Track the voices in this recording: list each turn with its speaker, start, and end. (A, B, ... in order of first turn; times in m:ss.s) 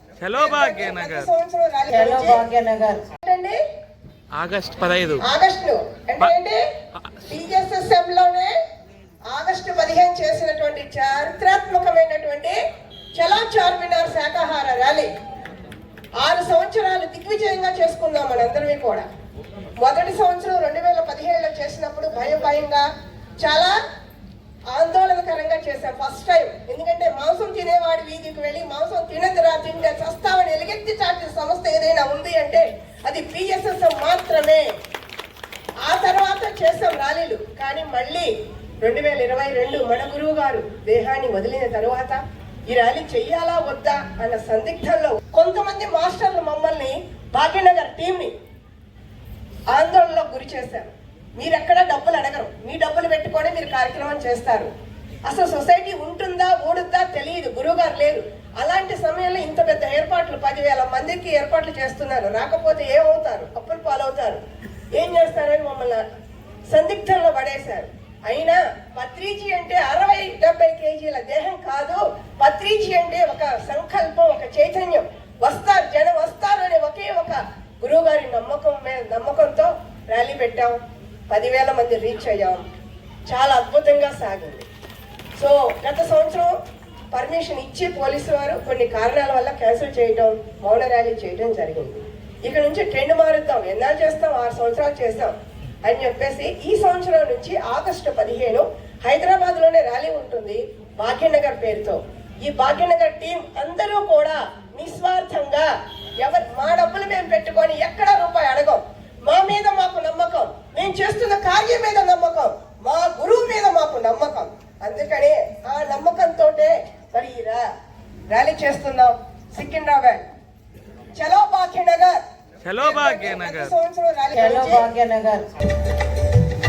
0:00.2-0:01.3 A
0:00.3-0:02.5 B
0:01.9-0:03.0 C
0:03.2-0:03.6 B
0:04.3-0:05.2 A
0:05.2-0:06.6 B
0:07.2-0:08.6 B
0:09.2-0:12.6 B
0:13.1-0:15.1 B
0:16.2-0:19.1 B
0:19.8-0:22.8 B
0:23.4-0:23.8 B
0:24.7-0:34.7 B
0:35.8-0:38.3 B
0:38.8-0:48.3 B
0:49.7-0:54.7 B
0:55.2-1:04.4 B
1:04.9-1:06.0 B
1:06.7-1:20.8 B
1:21.3-1:22.6 B
1:23.3-1:24.6 B
1:25.4-1:26.6 B
1:27.1-1:45.7 B
1:46.2-1:57.6 B
1:58.3-2:00.2 B
2:01.1-2:02.2 B
2:02.6-2:03.7 A
2:02.8-2:04.9 B
2:04.3-2:05.5 C